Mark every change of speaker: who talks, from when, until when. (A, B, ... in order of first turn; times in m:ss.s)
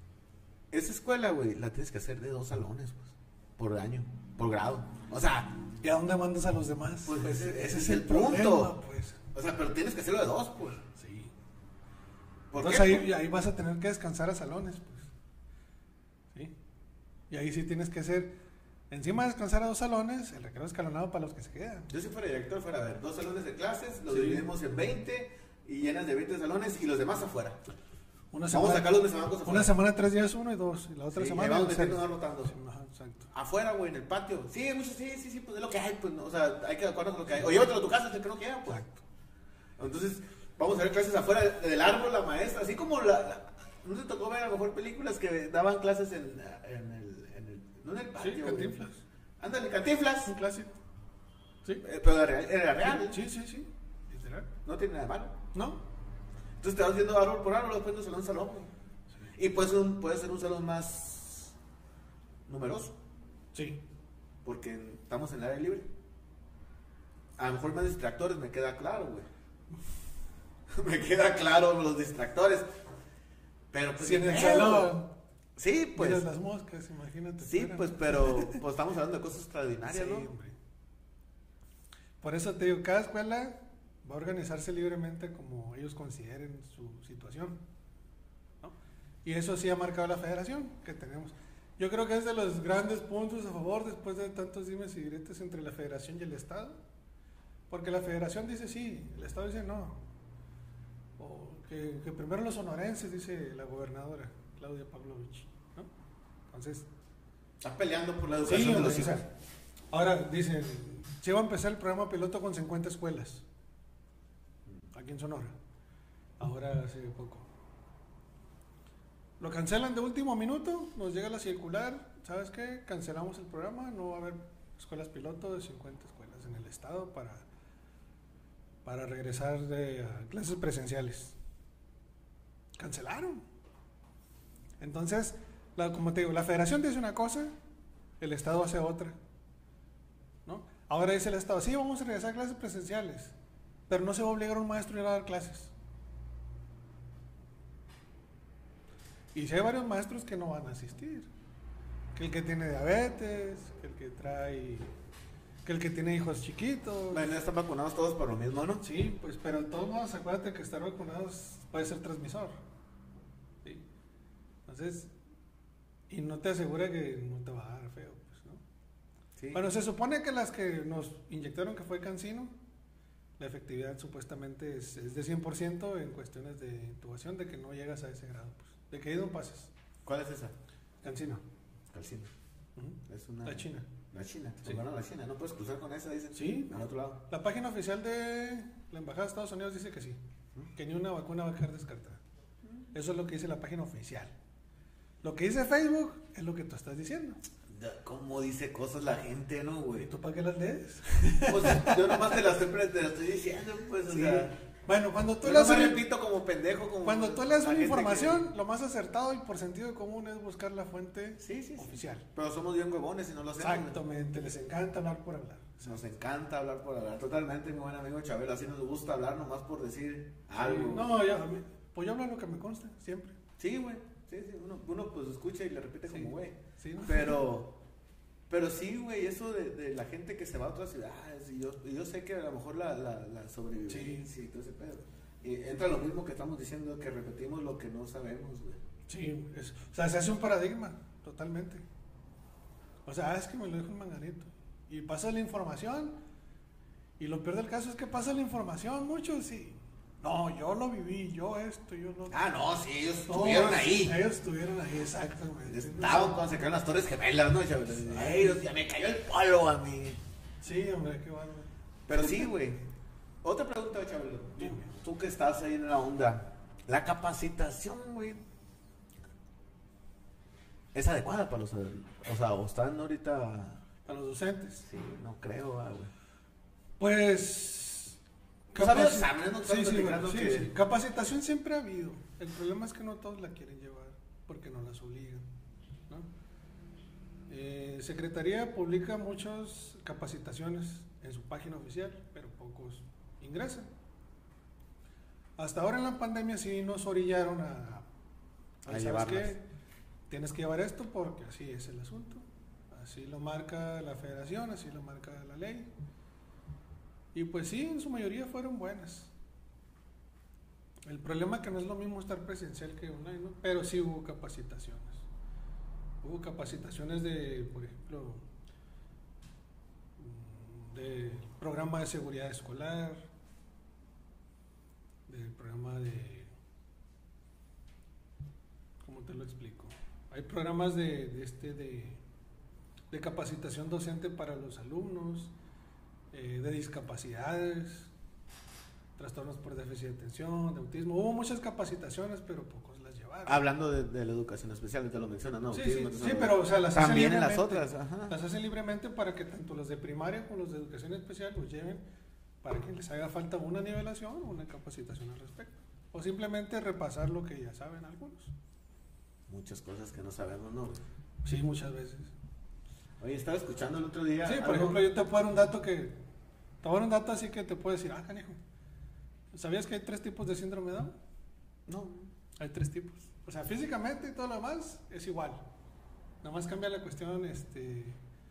0:00.7-0:05.6 A
0:05.8-0:09.2 B
0:07.0-0:08.7 A
0:09.3-0:10.8 A
0:10.9-0:11.3 B
0:12.5-0:13.1 A
0:12.5-0:15.1 B
0:17.3-0:18.4 B
0:18.9-0:21.9 B
0:21.9-0:27.6 A
0:24.1-0:24.5 B
0:28.3-0:33.3 B
0:28.5-0:29.7 A
0:31.1-0:32.5 A
0:33.3-0:38.8 A
0:38.7-0:39.0 B
0:39.8-0:48.8 A
0:48.2-0:49.0 B
0:49.4-0:50.3 A
0:50.2-0:50.8 B
0:51.8-0:53.2 A
0:52.8-0:54.5 B
0:54.6-0:55.4 A
0:55.5-0:55.8 B
0:56.6-0:58.7 A
0:59.3-1:01.5 A
1:02.5-1:02.9 A
1:04.4-1:05.9 A
1:07.4-1:09.3 A
1:10.7-1:12.6 A
1:13.7-1:14.9 A
1:14.0-1:15.1 B
1:15.6-1:16.2 A
1:16.0-1:18.6 B
1:17.4-1:20.3 A
1:19.8-1:20.5 B
1:22.2-1:27.6 B
1:29.2-1:36.8 B
1:37.7-1:40.0 B
1:41.2-1:45.9 B
1:46.5-1:46.9 B
1:47.6-1:49.2 A
1:48.4-1:49.3 B
1:49.9-1:53.4 B
1:54.9-1:55.5 B
1:56.4-1:57.5 B
1:59.4-2:07.4 B
2:08.8-2:11.4 B
2:12.8-2:13.4 B
2:14.8-2:17.5 B
2:18.2-2:19.2 B
2:20.4-2:23.3 B
2:23.9-2:25.7 B
2:29.3-2:31.3 B
2:32.2-2:34.9 B
2:35.6-2:37.3 B
2:37.1-2:38.8 A
2:38.8-2:42.5 B
2:44.7-2:45.1 B
2:46.1-2:48.6 B
2:49.4-2:49.6 A
2:49.5-2:52.5 B
2:53.4-2:59.7 B
3:00.0-3:00.5 A
3:01.0-3:01.4 B
3:01.9-3:02.3 A
3:02.8-3:03.9 B
3:03.1-3:07.2 A
3:06.3-3:06.7 B
3:07.3-3:10.2 B
3:10.7-3:12.2 B
3:12.9-3:14.3 B
3:15.2-3:17.4 B
3:17.7-3:20.1 A
3:20.0-3:22.4 B
3:21.4-3:24.5 A
3:24.1-3:26.0 B
3:25.4-3:28.4 A
3:27.0-3:32.2 B
3:31.4-3:34.0 A
3:33.6-3:36.0 B
3:35.8-3:41.1 A
3:40.6-3:43.4 B
3:43.6-3:47.8 A
3:46.1-3:47.4 B
3:48.5-3:58.8 A
3:53.9-3:54.2 B
3:59.1-4:01.8 B
4:03.0-4:06.1 B
4:07.2-4:12.4 B
4:12.3-4:14.2 A
4:13.2-4:16.4 B
4:15.6-4:20.2 A
4:18.0-4:18.6 B
4:20.6-4:21.7 B
4:22.1-4:22.8 A
4:23.4-4:28.4 A
4:24.6-4:24.9 B
4:30.9-4:33.8 A
4:34.0-4:34.8 B
4:34.8-4:36.1 A
4:37.0-4:38.2 B
4:38.7-4:45.4 B
4:38.7-4:40.7 A
4:47.5-4:53.9 B
4:55.6-4:58.0 B
4:58.8-4:59.6 B
4:58.9-4:59.6 A
5:00.3-5:05.9 B
5:07.3-5:09.3 B
5:11.0-5:15.2 B
5:16.2-5:18.4 B
5:20.2-5:23.2 B
5:25.3-5:26.5 B
5:29.0-5:32.2 B
5:33.1-5:35.5 B
5:36.3-5:38.1 B
5:39.2-5:43.6 B
5:43.4-5:48.3 A
5:45.7-5:52.0 B
5:52.6-5:58.5 B
5:59.5-6:01.0 A
6:01.4-6:02.3 B
6:03.2-6:05.1 A
6:04.4-6:06.2 B
6:06.8-6:08.6 B
6:09.5-6:11.1 B
6:11.9-6:12.3 A
6:12.6-6:15.6 B
6:16.4-6:18.2 B